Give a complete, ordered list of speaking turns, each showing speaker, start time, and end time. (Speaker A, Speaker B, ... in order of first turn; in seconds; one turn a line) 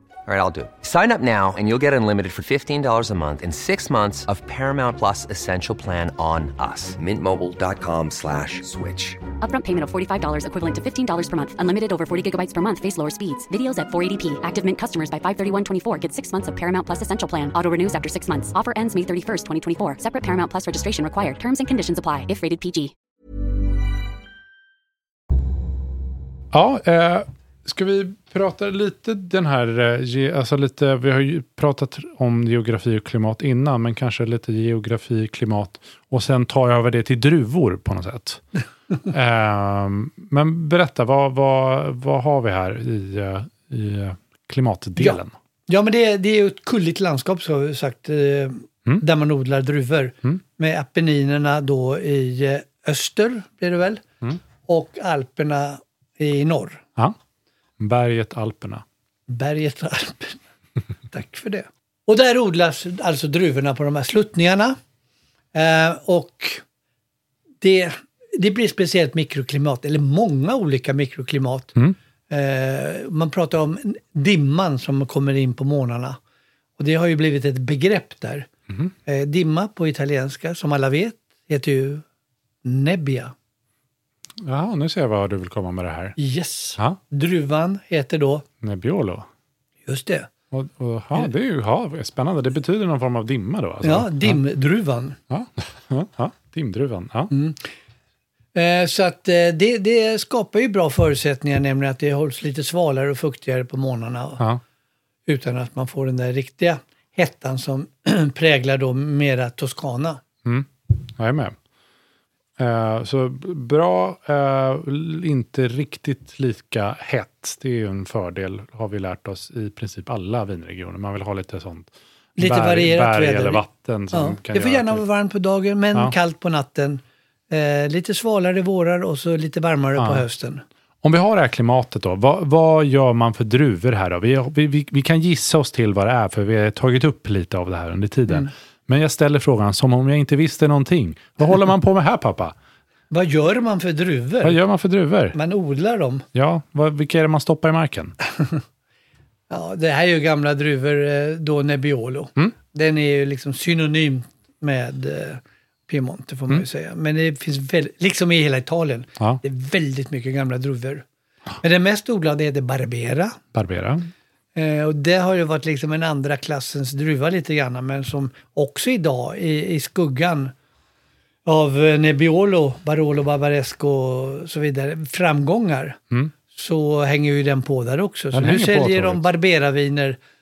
Speaker A: 0.3-9.2
Speaker B: 9.4-22.9
Speaker C: 26.5-38.4
Speaker C: 39.1-45.3
Speaker D: 45.0-54.0
Speaker D: 54.6-56.8
Speaker C: 57.8-58.8
Speaker D: 59.3-60.4
Speaker D: 61.1-64.8
Speaker D: 65.5-66.6
Speaker D: 67.6-71.8
Speaker D: 72.3-76.2
Speaker D: 76.8-78.5
Speaker D: 79.1-82.0
Speaker D: 82.6-83.3
Speaker C: 84.4-86.2
Speaker D: 86.2-88.5
Speaker C: 88.6-89.3
Speaker D: 89.8-90.3
Speaker C: 90.5-94.4
Speaker D: 93.8-95.2
Speaker C: 95.3-97.3
Speaker D: 97.3-97.6
Speaker D: 98.5-104.5
Speaker D: 105.3-110.2
Speaker C: 110.5-111.6
Speaker C: 112.6-125.0
Speaker D: 122.4-130.6
Speaker C: 130.0-130.2
Speaker C: 131.0-142.6
Speaker D: 143.1-144.6
Speaker C: 144.4-145.4
Speaker D: 145.3-146.3
Speaker C: 146.3-148.2
Speaker D: 149.5-161.1
Speaker D: 161.6-163.4
Speaker C: 163.5-164.1
Speaker D: 164.6-170.5
Speaker D: 171.4-176.0
Speaker D: 176.5-180.2
Speaker C: 178.3-179.2